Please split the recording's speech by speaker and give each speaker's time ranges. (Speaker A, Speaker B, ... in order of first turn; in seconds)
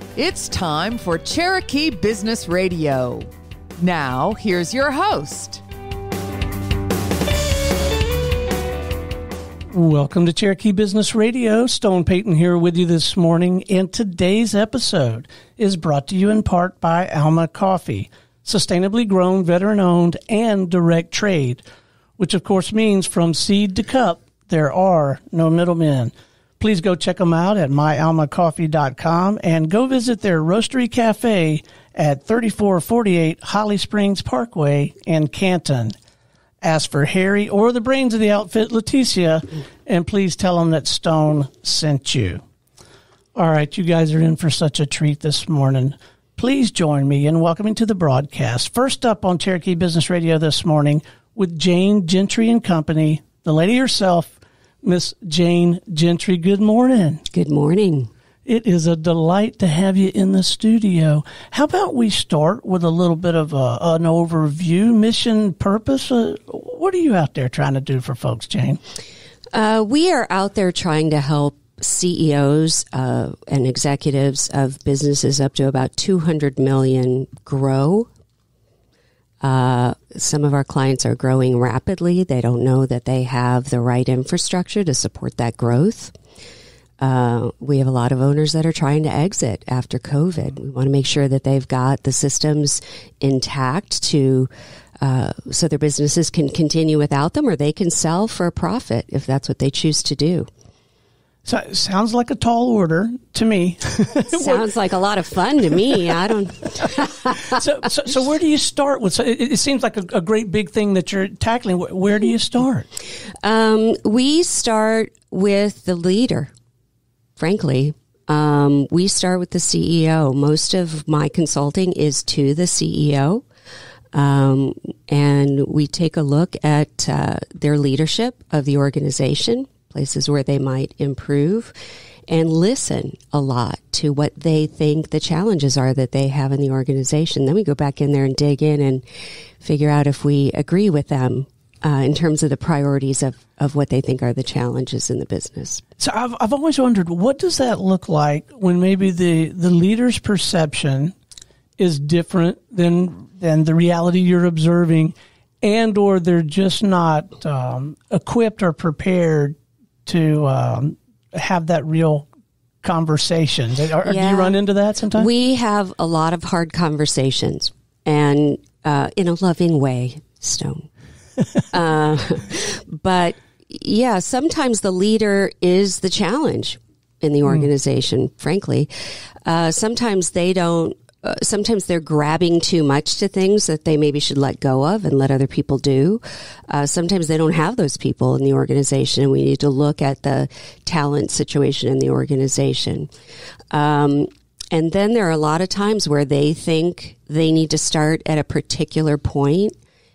Speaker A: 0.1-3.3, 3.8-5.6
Speaker B: 9.7-21.6, 22.2-36.0, 36.6-42.4, 43.3-57.2, 58.5-68.8, 101.4-104.7, 107.5-112.9, 146.0-151.1, 151.8-159.5, 160.1-162.2, 162.8-165.3
Speaker C: 57.3-58.1, 69.5-78.1, 79.4-86.1, 87.0-94.5, 95.0-100.5, 104.3-107.6, 113.4-116.5, 117.4-123.4, 124.1-131.7, 132.3-139.0, 139.6-145.8, 164.0-164.6, 165.1-170.9, 171.7-178.9, 179.4-193.1, 193.7-199.7